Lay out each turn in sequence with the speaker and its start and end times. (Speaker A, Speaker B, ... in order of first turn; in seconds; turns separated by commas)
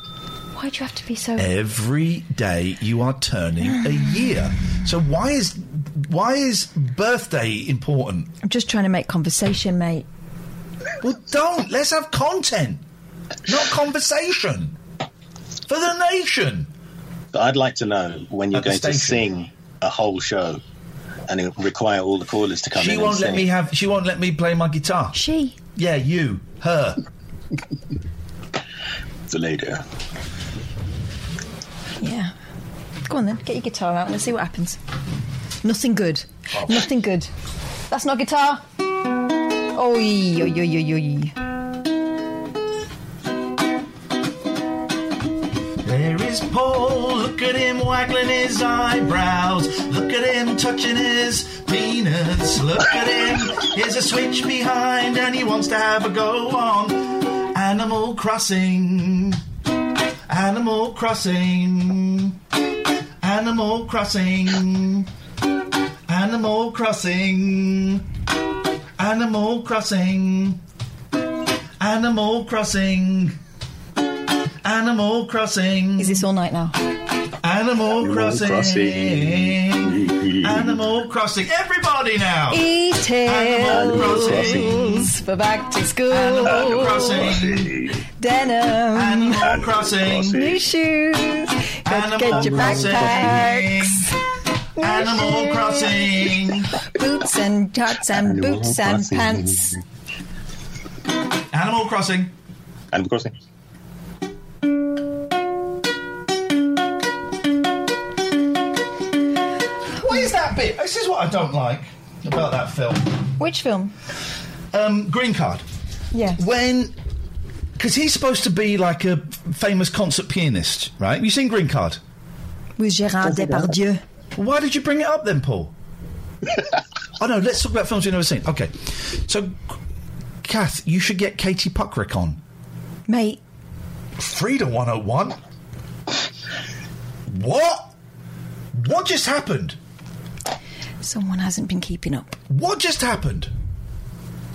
Speaker A: 0.5-1.5, Speaker B: 1.4-8.3, Speaker A: 8.4-10.1, Speaker B: 11.0-12.8, Speaker B: 13.4-14.8, Speaker B: 15.7-16.7, Speaker C: 17.3-20.6, Speaker B: 18.5-19.3, Speaker C: 21.3-23.5, Speaker B: 22.7-25.2, Speaker A: 25.1-25.6, Speaker B: 25.8-27.0, Speaker C: 29.3-29.8, Speaker A: 32.0-32.3, Speaker A: 33.0-34.8, Speaker A: 35.6-37.3, Speaker A: 37.9-38.6, Speaker A: 39.7-41.3, Speaker B: 45.8-59.4, Speaker B: 60.3-62.4, Speaker B: 63.2-65.1, Speaker B: 66.1-68.1, Speaker B: 69.0-70.6, Speaker B: 71.8-73.4, Speaker B: 74.6-76.2, Speaker A: 76.0-76.8, Speaker B: 77.4-82.7, Speaker C: 77.9-81.0, Speaker A: 82.5-87.4, Speaker B: 83.2-85.1, Speaker C: 83.6-85.1, Speaker B: 86.1-87.7, Speaker C: 86.5-88.0, Speaker A: 88.2-89.5, Speaker B: 88.9-90.4, Speaker C: 89.4-90.6, Speaker A: 90.3-94.1, Speaker B: 91.8-94.1, Speaker C: 92.3-93.5, Speaker A: 94.8-99.8, Speaker B: 94.8-96.7, Speaker C: 98.1-99.7, Speaker B: 101.5-102.3, Speaker C: 102.9-103.3, Speaker B: 110.0-113.2, Speaker A: 113.4-113.9, Speaker B: 114.7-115.6, Speaker A: 116.1-116.4, Speaker B: 116.3-116.9, Speaker B: 117.8-122.0, Speaker A: 122.8-124.0, Speaker C: 123.3-123.7, Speaker B: 124.3-125.7, Speaker B: 127.2-129.8, Speaker B: 130.4-132.4, Speaker A: 133.1-133.4, Speaker B: 134.2-135.4, Speaker B: 137.3-137.9, Speaker B: 138.7-139.8, Speaker A: 141.0-142.4, Speaker B: 142.5-143.5